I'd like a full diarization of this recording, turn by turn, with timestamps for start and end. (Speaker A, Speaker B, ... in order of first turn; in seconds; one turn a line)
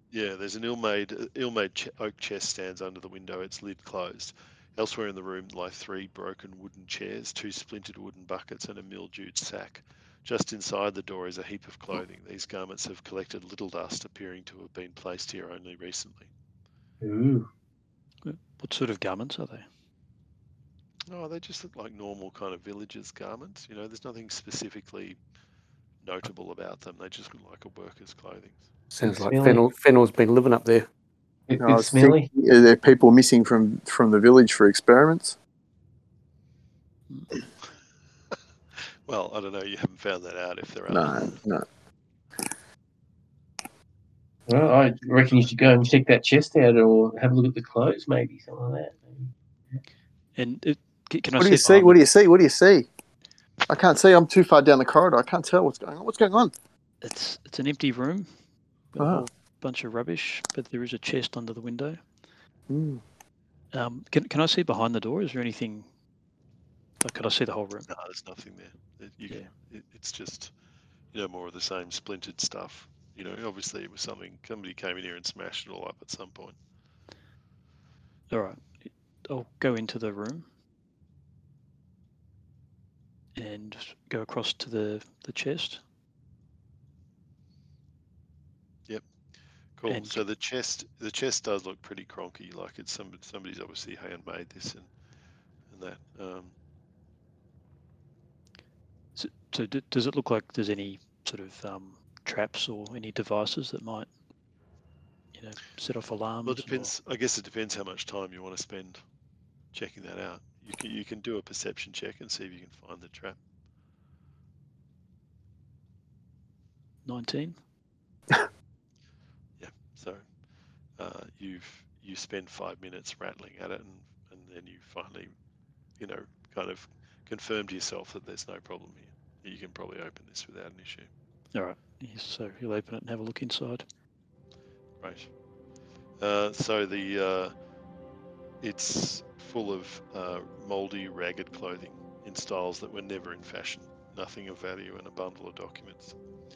Speaker A: 0.1-16.3
Speaker B: 17.0-17.5
Speaker C: 18.2-19.7
Speaker A: 21.1-25.2
Speaker A: 26.0-28.6
Speaker D: 28.9-30.9
Speaker B: 29.1-29.6
Speaker B: 31.5-32.3
Speaker E: 31.6-35.4
Speaker A: 39.1-41.4
Speaker E: 40.9-41.6
Speaker B: 44.5-49.8
Speaker C: 50.4-52.0
Speaker E: 51.4-52.9
Speaker E: 53.7-56.5
Speaker C: 57.0-58.3
Speaker C: 58.9-62.0
Speaker E: 59.0-59.3
Speaker E: 62.7-63.0
Speaker C: 63.7-65.9
Speaker C: 67.0-67.9
Speaker A: 67.9-70.5
Speaker A: 71.1-76.6
Speaker C: 78.3-80.5
Speaker C: 83.3-85.8
Speaker A: 89.8-94.9
Speaker C: 89.9-90.2
Speaker A: 95.7-96.5
Speaker C: 99.2-104.1
Speaker C: 105.3-106.9
Speaker A: 106.4-109.0
Speaker A: 109.7-113.4
Speaker C: 117.0-117.6
Speaker A: 119.6-120.2
Speaker A: 121.0-125.3
Speaker A: 126.0-131.1
Speaker C: 131.5-133.8
Speaker A: 135.0-135.3
Speaker A: 136.2-137.5
Speaker A: 138.6-146.2